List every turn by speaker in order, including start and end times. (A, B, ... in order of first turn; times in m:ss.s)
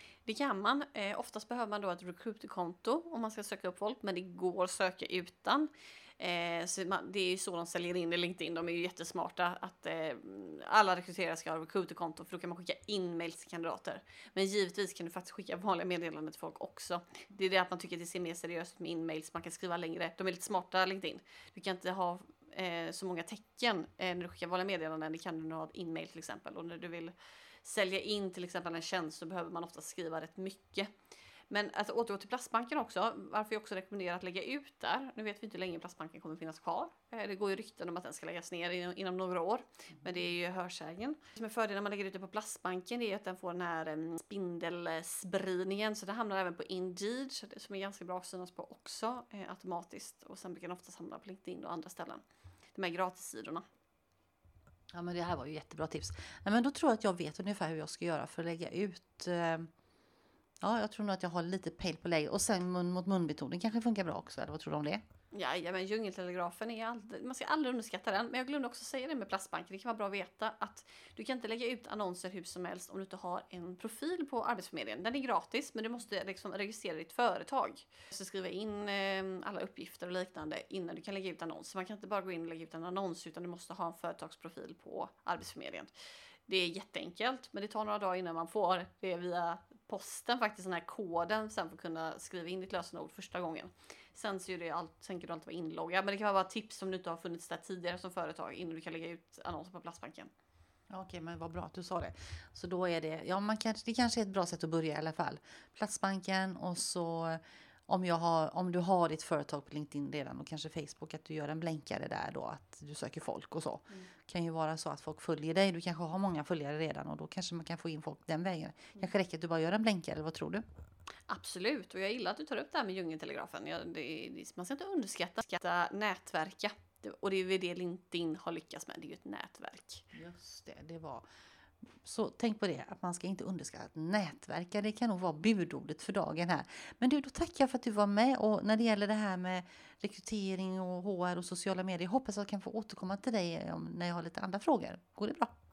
0:00.3-0:30.9 A
0:31.5-0:52.2 A
0:52.8-0:53.6 A
0:54.9-0:59.7 B
1:00.6-1:05.0 B
1:05.3-1:25.9 A
1:26.5-1:40.3 A
1:40.9-2:00.6 B
2:01.3-2:10.0 A
2:10.1-2:11.3 B
2:12.0-2:25.5 B